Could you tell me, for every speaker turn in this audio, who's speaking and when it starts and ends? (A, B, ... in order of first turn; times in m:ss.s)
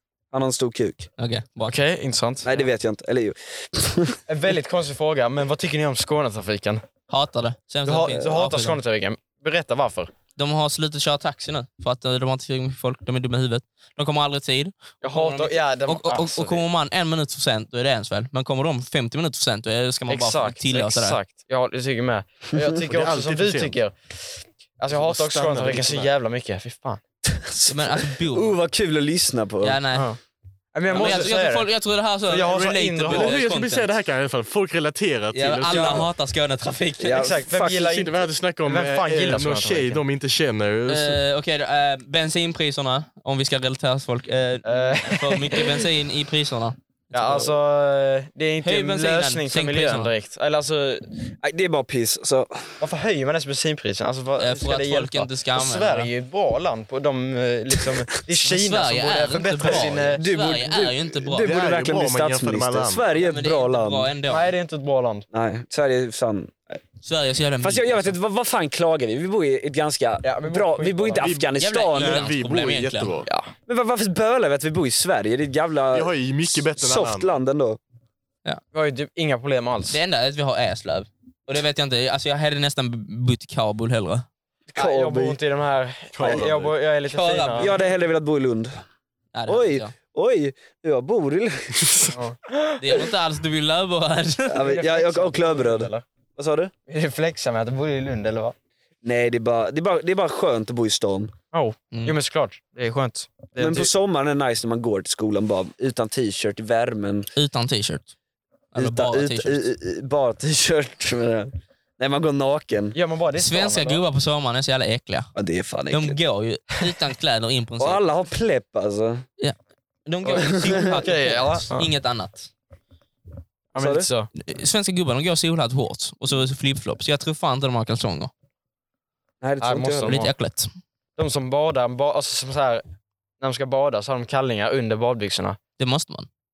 0:00.3-0:01.1 A
0:01.2-0:01.8 B
0:01.6-0:02.7 C
0:02.4-0:04.2 A
0:04.3-0:06.8 C
0:07.1-0:08.8 B
0:07.8-0:10.1 C
0:10.4-0:21.2 B
0:15.0-0:16.6 C
0:20.1-0:27.0 C
0:22.9-0:23.8 D
0:24.9-0:26.1 D
0:27.3-0:29.8 A
0:27.7-0:28.6 B
0:29.6-0:30.1 B
0:29.9-0:30.2 C
0:30.7-0:31.7 C
0:30.9-0:33.9 B
0:32.3-0:33.4 C
0:33.1-0:36.1 D
0:35.3-0:37.3 B
0:35.7-0:36.1 C
0:37.0-0:37.9 A
0:37.2-0:40.0 C
0:37.7-0:41.2 D
0:40.9-0:47.5 B
0:44.6-0:45.8 C
0:47.1-0:51.1 C
0:48.6-0:50.1 B
0:51.3-0:52.8 A
0:52.8-1:00.2 C
0:54.4-0:56.1 B
0:58.4-1:01.5 B
1:00.2-1:04.1 A
1:01.4-1:03.1 D
1:03.2-1:04.5 B
1:04.3-1:05.3 C
1:05.3-1:06.8 A
1:07.0-1:08.1 B
1:07.6-1:12.3 A
1:10.2-1:11.2 C
1:11.2-1:13.3 D
1:11.6-1:13.2 B
1:13.3-1:13.5 C
1:13.7-1:16.1 A
1:15.9-1:17.3 D
1:16.8-1:17.8 A
1:18.7-1:20.0 C
1:19.9-1:24.3 B
1:24.7-1:25.4 A
1:24.8-1:27.7 C
1:26.1-1:26.7 D
1:27.1-1:27.8 B
1:27.6-1:28.8 A
1:29.3-1:29.9 B
1:29.5-1:31.8 A
1:31.9-1:32.1 D
1:32.1-1:33.0 C
1:32.8-1:34.6 B
1:34.5-1:36.7 A
1:34.6-1:36.0 C
1:36.9-1:38.6 C
1:39.0-1:41.3 A
1:41.5-1:43.9 C
1:41.9-1:42.2 B
1:43.6-1:47.3 A
1:47.4-1:48.1 B
1:48.7-1:49.6 B
1:48.8-1:53.0 A
1:52.9-1:54.0 C
1:53.4-1:55.3 B
1:55.4-1:56.2 A
1:55.9-1:58.0 B
1:57.8-1:59.2 A
1:59.4-2:02.5 B
2:00.2-2:01.9 C
2:00.3-2:01.0 A
2:03.7-2:04.3 C
2:03.8-2:04.1 A
2:04.4-2:08.3 B
2:09.4-2:10.3 A
2:09.6-2:10.3 C
2:10.1-2:10.7 B
2:11.2-2:12.8 C
2:13.4-2:15.6 C
2:15.8-2:16.3 B